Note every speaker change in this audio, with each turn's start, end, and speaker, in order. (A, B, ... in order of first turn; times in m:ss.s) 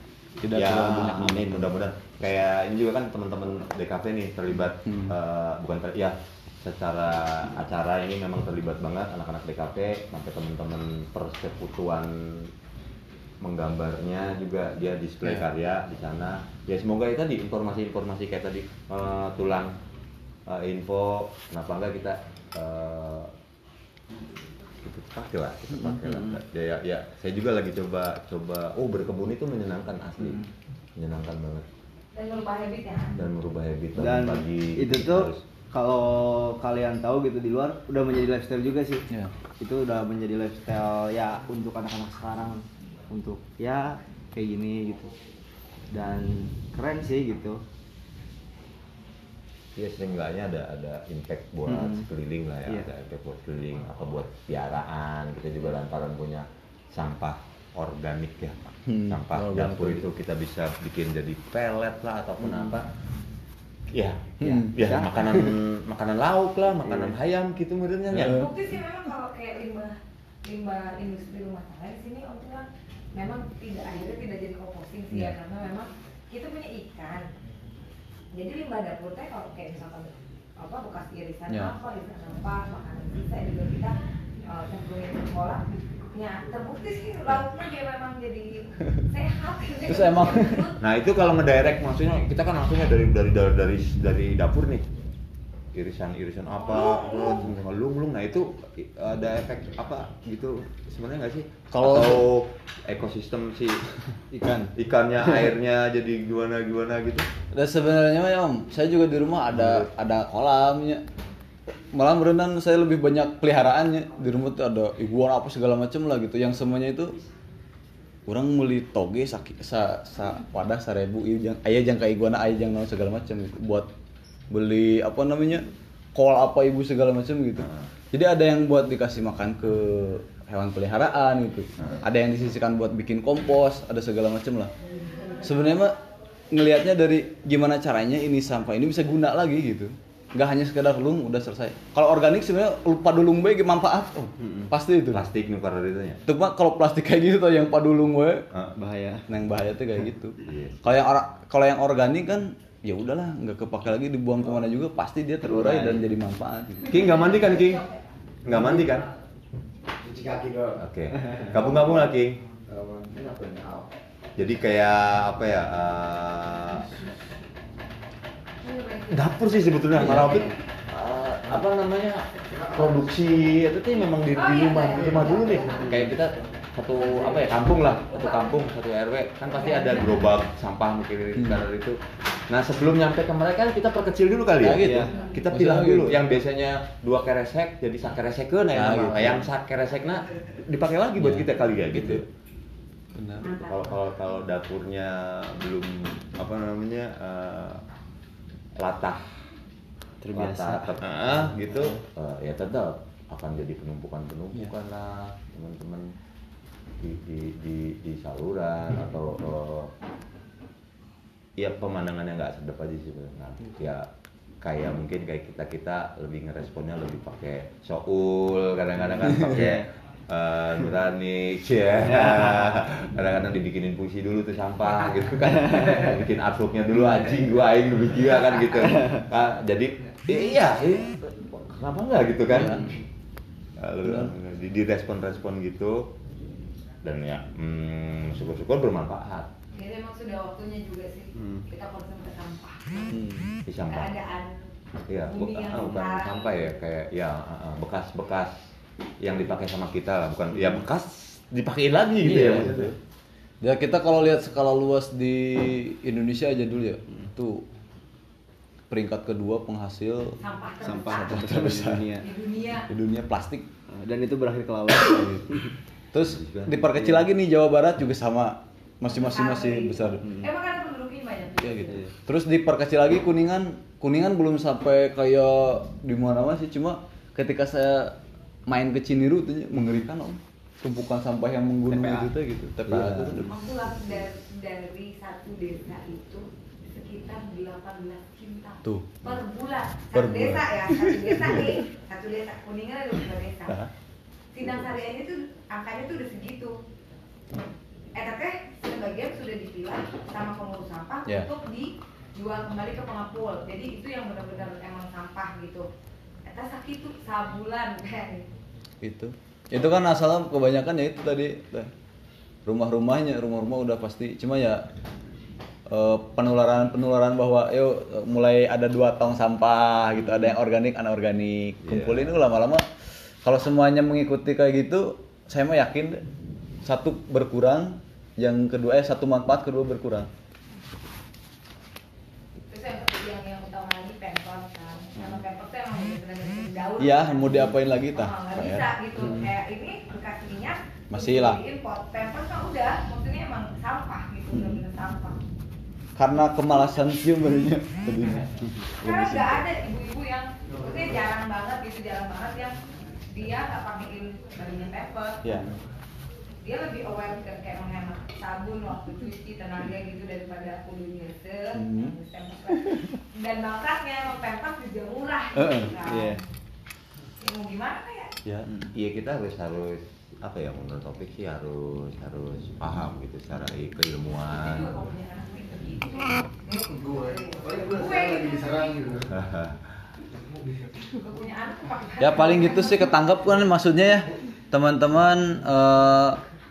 0:00.4-0:01.7 A
0:00.5-0:12.5 B
0:04.8-0:05.1 A
0:13.4-0:19.7 B
0:20.5-0:23.3 B
0:24.8-0:30.4 B
0:25.8-0:26.3 C
0:30.2-0:30.4 C
0:31.0-0:31.6 B
0:32.1-0:33.2 D
0:33.2-0:35.4 B
0:34.0-0:39.0 C
0:39.6-0:45.1 C
0:45.9-0:47.6 C
0:49.8-1:02.9 B
0:51.7-0:52.1 C
0:58.8-1:00.1 A
1:02.4-1:02.7 C
1:03.9-1:08.4 B
1:04.4-1:04.7 A
1:04.8-1:05.1 C
1:06.8-1:07.1 C
1:08.1-1:08.5 A
1:08.2-1:17.3 D
1:18.3-1:30.8 D
1:29.8-1:30.7 A
1:30.8-1:34.8 B
1:35.7-1:43.8 B
1:41.7-1:42.2 A
1:44.3-1:44.7 C
1:44.7-1:47.3 B
1:47.5-1:51.0 A
1:49.5-1:49.8 B
1:51.9-1:57.2 A
1:58.2-2:03.9 A
2:04.5-2:14.7 A
2:07.6-2:07.8 B
2:15.4-2:16.0 A
2:16.5-2:25.2 A
2:24.4-2:24.7 C
2:25.1-2:26.2 B
2:26.2-2:28.4 A
2:28.8-2:29.2 C
2:29.3-2:36.9 A
2:30.4-2:30.8 B
2:35.4-2:36.0 C
2:36.8-2:37.8 B
2:36.9-2:38.0 D
2:38.4-2:39.1 B
2:40.0-2:40.8 E
2:40.8-2:42.4 B
2:42.7-2:43.9 E
2:44.4-2:46.9 B
2:48.6-2:50.6 D
2:49.1-3:12.2 B
2:52.6-2:52.9 E
2:54.3-2:55.9 D
2:55.8-2:56.1 C
2:57.0-2:58.6 D
2:59.5-3:00.3 D
3:01.4-3:01.6 A
3:04.6-3:06.2 A
3:04.7-3:05.2 C
3:08.7-3:09.5 A
3:11.2-3:12.2 A
3:13.1-3:13.5 A
3:13.4-3:17.8 B
3:18.8-3:19.2 B
3:20.2-3:21.0 C
3:20.3-3:26.1 B
3:27.0-3:29.9 B
3:31.6-3:34.1 B
3:34.6-3:52.9 B
3:39.2-3:39.8 C
3:42.1-3:42.7 C
3:45.6-3:46.0 C
3:52.5-3:52.8 A
3:53.8-3:56.1 B
3:54.0-3:54.3 A
3:57.0-3:59.5 B
3:59.7-4:03.2 D
4:01.4-4:01.6 C
4:03.7-4:04.2 B
4:03.9-4:04.5 D
4:05.1-4:08.6 B
4:05.3-4:06.7 D
4:09.2-4:12.9 B
4:12.2-4:12.9 A
4:13.6-4:17.7 A
4:18.9-4:20.4 A
4:20.4-4:21.3 D
4:20.8-4:22.3 C
4:21.0-4:22.1 A
4:22.2-4:22.9 D
4:22.9-4:23.7 A
4:23.9-4:25.7 C
4:25.1-4:25.4 A
4:26.1-4:30.2 A
4:26.2-4:26.8 B
4:29.1-4:32.0 D
4:30.2-4:30.5 C
4:31.6-4:43.6 A
4:31.9-4:32.1 C
4:42.9-4:43.4 B
4:43.4-4:53.8 D
4:48.8-4:49.2 A
4:50.1-4:51.8 A
4:54.5-4:56.8 D
4:58.1-5:05.8 D
5:06.4-5:08.4 D
5:09.0-5:11.9 A
5:12.6-5:14.8 A
5:15.9-5:22.8 A
5:21.8-5:22.3 B
5:23.4-5:26.2 A
5:26.8-5:30.3 A
5:32.7-5:45.4 D
5:37.0-5:38.9 A
5:41.1-5:41.6 A
5:46.2-5:49.6 A
5:49.0-5:52.8 D
5:53.3-5:55.4 D
5:56.6-6:06.4 D
6:01.7-6:02.1 A
6:02.7-6:03.1 A
6:05.5-6:05.9 A
6:06.0-6:06.4 C
6:07.4-6:08.3 D
6:08.9-6:14.9 B
6:14.5-6:19.1 D
6:16.6-6:19.3 E
6:19.3-6:19.8 B
6:21.1-6:23.2 D
6:22.2-6:26.4 A